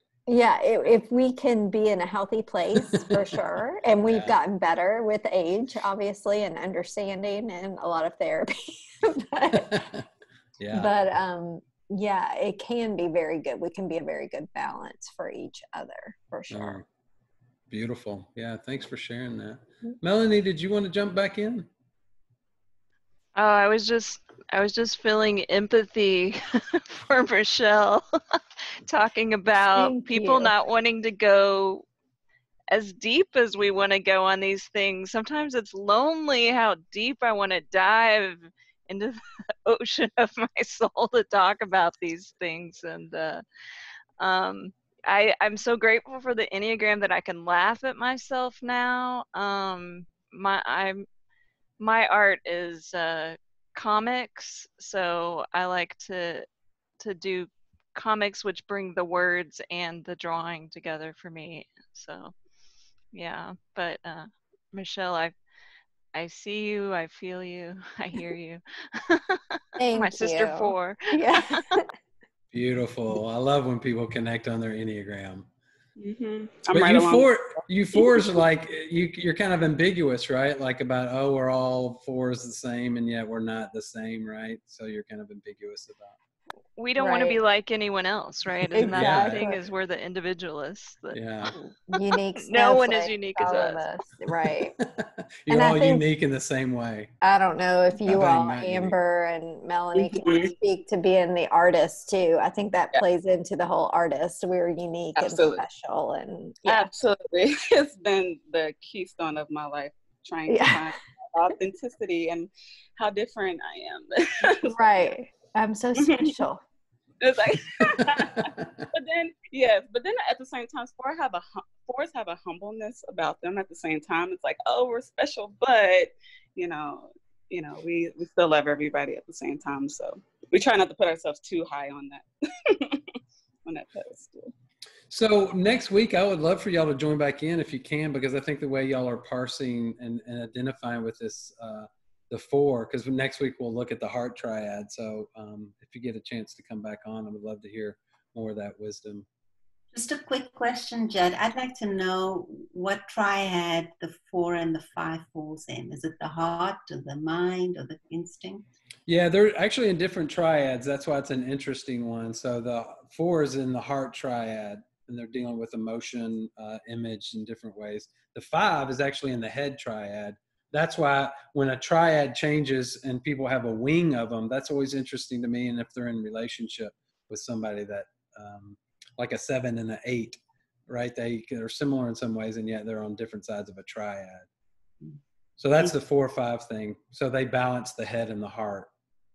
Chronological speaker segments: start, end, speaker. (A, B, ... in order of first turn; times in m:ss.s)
0:00.3-0:09.8 A
0:04.1-0:04.4 B
0:09.7-0:10.0 B
0:10.6-0:10.9 B
0:10.7-0:16.8 A
0:16.5-0:16.8 B
0:17.7-0:21.7 B
0:23.4-0:31.8 C
0:29.7-0:30.5 A
0:32.7-0:43.4 C
0:44.2-0:51.1 C
0:51.8-0:56.5 C
0:57.0-1:02.4 C
1:03.1-1:05.4 C
1:06.1-1:11.6 C
1:09.8-1:11.8 A
1:12.5-1:15.5 B
1:16.0-1:17.3 D
1:16.7-1:26.2 B
1:18.0-1:18.3 D
1:26.8-1:31.2 C
1:27.0-1:27.4 A
1:28.7-1:29.6 A
1:28.8-1:29.4 B
1:31.1-1:31.5 B
1:31.6-1:34.8 A
1:32.4-1:34.0 C
1:34.8-1:37.1 B
1:35.5-1:36.0 A
1:37.2-1:46.9 A
1:38.1-1:39.0 B
1:39.9-1:40.5 D
1:45.2-1:45.6 D
1:46.6-1:55.1 D
1:50.5-1:50.9 A
1:54.8-1:56.6 A
1:56.0-1:56.3 D
1:57.2-2:14.5 D
2:15.1-2:29.3 B
2:29.9-2:38.6 E
2:39.1-3:04.5 B
3:05.6-3:08.9 B